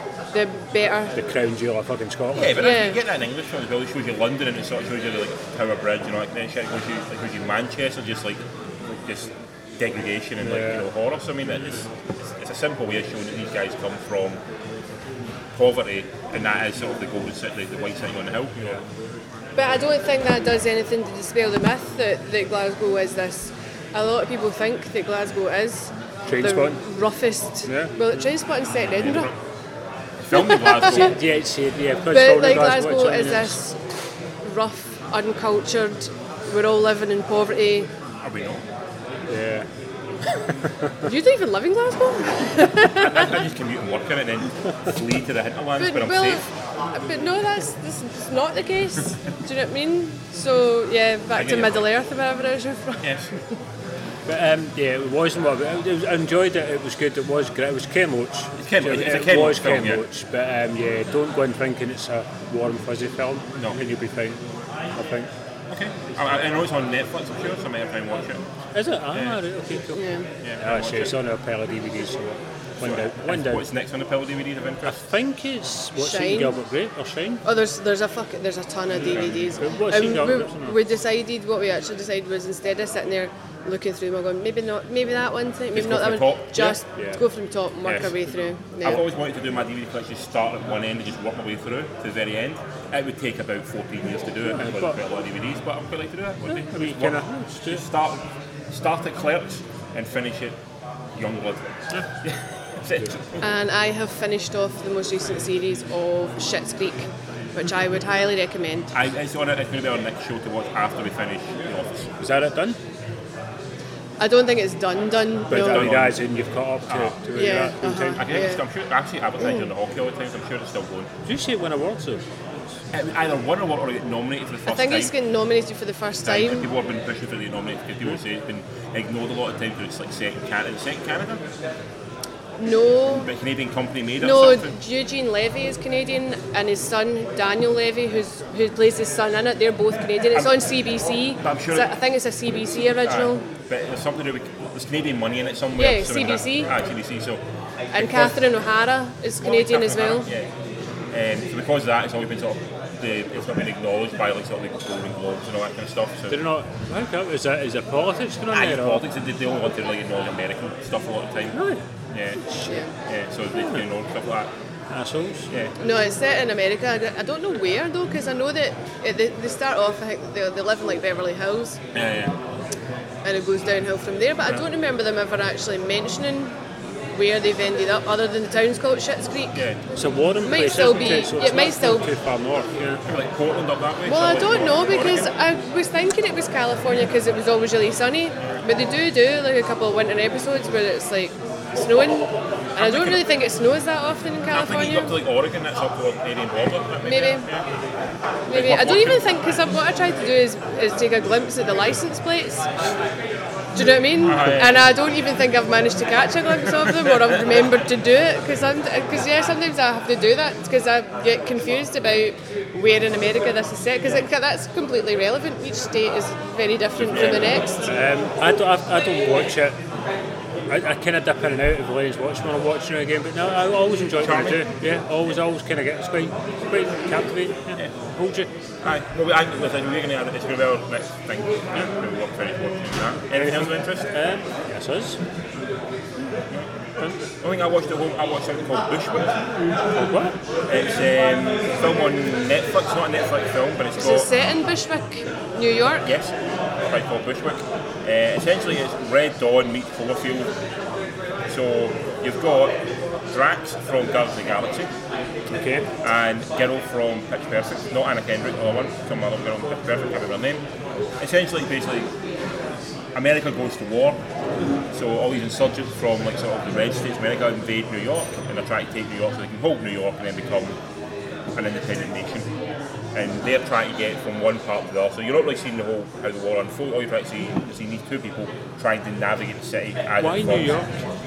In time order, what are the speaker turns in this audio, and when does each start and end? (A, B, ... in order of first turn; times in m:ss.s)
0:00.3-0:01.2 A
0:01.2-0:02.7 B
0:02.3-0:14.4 C
0:02.6-0:03.0 A
0:10.4-0:10.9 B
0:15.5-0:18.8 C
0:19.6-0:29.3 A
0:26.3-0:26.8 B
0:27.7-0:27.9 B
0:29.0-0:29.4 C
0:30.2-0:31.2 C
0:30.3-0:31.1 A
0:30.9-0:33.6 B
0:32.1-0:33.8 A
0:34.4-0:37.9 A
0:38.2-0:38.6 C
0:39.3-0:39.7 B
0:40.6-0:40.9 B
0:41.0-0:43.4 A
0:43.0-0:46.4 C
0:45.8-0:53.1 A
0:51.4-0:51.8 C
0:53.0-0:53.4 C
0:54.3-1:04.4 B
0:58.6-1:00.0 C
1:05.0-1:05.3 B
1:05.7-1:08.4 C
1:08.7-1:10.0 B
1:09.1-1:09.4 C
1:09.9-1:10.3 A
1:10.4-1:11.2 C
1:10.6-1:13.7 B
1:12.8-1:15.0 C
1:14.8-1:17.4 B
1:16.0-1:16.6 A
1:17.4-1:29.0 A
1:19.0-1:19.6 C
1:19.6-1:20.8 B
1:25.7-1:26.8 C
1:27.8-1:28.2 B
1:28.8-1:40.6 C
1:34.5-1:35.0 B
1:36.5-1:37.8 B
1:41.2-1:43.4 C
1:43.4-1:48.9 A
1:48.9-1:52.1 C
1:52.2-1:52.8 B
1:54.2-1:55.9 A
1:55.5-1:58.3 B
1:55.5-1:56.2 C
1:56.9-1:57.2 C
1:57.3-1:58.6 A
1:58.2-2:01.1 C
2:01.2-2:02.2 B
2:02.9-2:05.1 C
2:04.7-2:06.7 A
2:06.2-2:11.4 C
2:12.6-2:13.3 A
2:13.1-2:14.7 C
2:14.2-2:23.5 A
2:21.4-2:21.9 C
2:23.0-2:27.4 C
2:25.8-2:26.7 A
2:27.9-2:30.3 A
2:27.9-2:28.4 C
2:29.4-2:30.5 C
2:31.1-2:36.4 C
2:36.3-2:39.1 B
2:38.5-2:41.6 C
2:41.5-2:41.8 B
2:42.1-2:42.4 C
2:42.5-2:42.8 B
2:43.0-2:44.5 C
2:43.5-2:43.9 B
2:44.9-2:45.5 B
2:45.8-2:51.8 A
2:51.9-2:52.4 C
2:53.2-2:56.6 A
2:57.1-2:59.6 A
2:59.5-2:59.8 C
3:00.0-3:03.0 B
3:00.4-3:02.1 A
3:03.0-3:05.3 C
3:04.1-3:15.1 A
3:12.8-3:13.2 C
3:14.5-3:17.7 C
3:17.0-3:17.5 A
3:18.5-3:22.7 A
3:18.5-3:19.3 C
3:23.8-3:37.9 A
3:24.2-3:24.8 C
3:27.1-3:27.4 C
3:37.0-3:37.7 C
3:37.9-3:39.8 B
3:40.7-3:48.5 B
3:44.2-3:44.7 C
3:48.8-3:54.1 C
3:53.3-3:55.2 B
3:57.4-3:59.4 C
4:00.0-4:00.4 B
4:00.7-4:04.3 C
4:04.0-4:06.1 A
4:06.0-4:06.4 C
4:06.9-4:10.5 C
4:11.5-4:12.8 C
4:13.3-4:14.9 C
4:15.5-4:15.9 B
4:16.0-4:20.6 C
4:21.2-4:22.1 C
4:23.1-4:24.2 C
4:24.9-4:30.8 C
4:31.6-4:32.5 C
4:33.1-4:40.8 C
4:40.2-4:41.0 B